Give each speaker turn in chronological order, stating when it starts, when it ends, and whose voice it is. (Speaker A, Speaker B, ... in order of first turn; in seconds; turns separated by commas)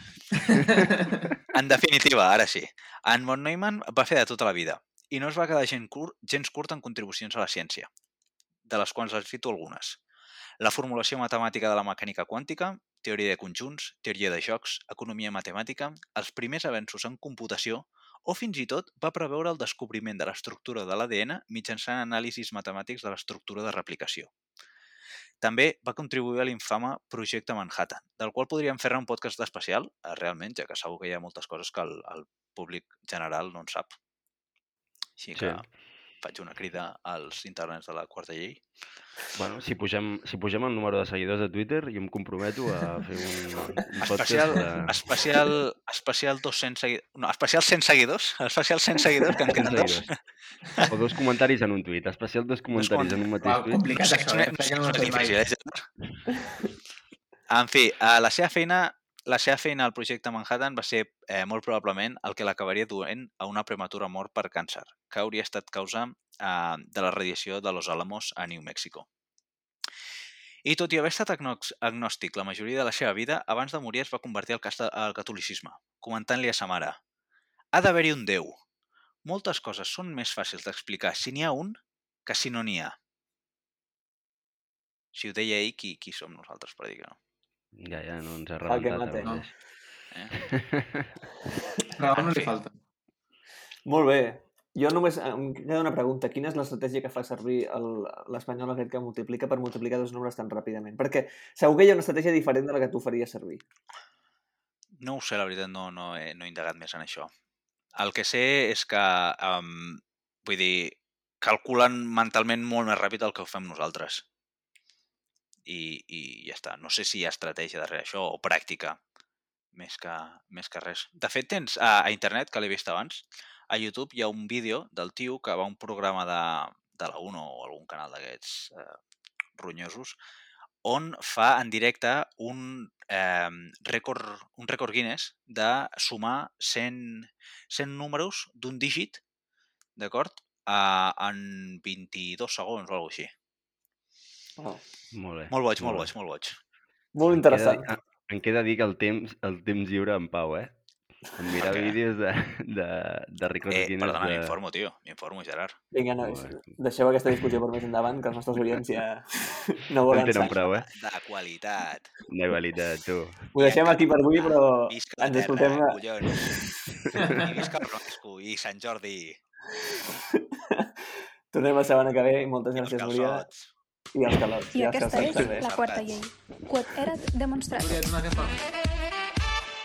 Speaker A: 0.5-1.3, Speaker B: 1.5-7.9, Speaker B: 8.7-10.0, Speaker B: 10.6-24.3, Speaker B: 25.4-34.0, Speaker B: 35.2-35.7, Speaker A: 35.3-35.6, Speaker B: 36.2-38.6, Speaker A: 39.4-45.0, Speaker B: 44.0-50.1, Speaker A: 49.5-50.1, Speaker A: 50.9-53.8, Speaker B: 52.8-53.2, Speaker C: 53.4-55.4, Speaker B: 54.0-55.9, Speaker B: 57.5-69.1, Speaker B: 70.7-77.0, Speaker B: 77.7-78.5, Speaker B: 79.2-81.7, Speaker B: 82.3-83.0, Speaker B: 85.1-87.2, Speaker A: 87.8-89.5, Speaker D: 88.7-89.4, Speaker A: 90.4-91.1, Speaker C: 92.0-92.8, Speaker B: 92.1-92.5, Speaker D: 93.9-103.6, Speaker B: 105.0-107.3, Speaker B: 108.0-114.3, Speaker B: 115.7-119.0, Speaker B: 119.8-129.0, Speaker B: 129.6-130.2, Speaker B: 130.8-139.2, Speaker B: 140.0-143.3, Speaker D: 144.6-144.8, Speaker A: 145.1-146.1, Speaker B: 145.5-146.6, Speaker D: 147.2-147.9, Speaker A: 147.3-150.8, Speaker A: 151.4-154.6, Speaker B: 151.6-152.0, Speaker B: 153.7-155.8, Speaker D: 155.9-160.7, Speaker A: 156.2-156.8, Speaker A: 157.3-157.6, Speaker A: 158.6-158.8, Speaker A: 160.1-160.9, Speaker B: 160.9-162.1, Speaker A: 162.3-163.5, Speaker D: 163.6-166.6, Speaker B: 163.6-166.7, Speaker A: 167.1-167.5, Speaker B: 167.2-169.4, Speaker D: 169.7-170.9, Speaker D: 171.5-173.4, Speaker B: 172.8-173.7, Speaker D: 174.2-175.6, Speaker E: 174.7-178.0, Speaker B: 175.4-176.2, Speaker C: 177.7-178.6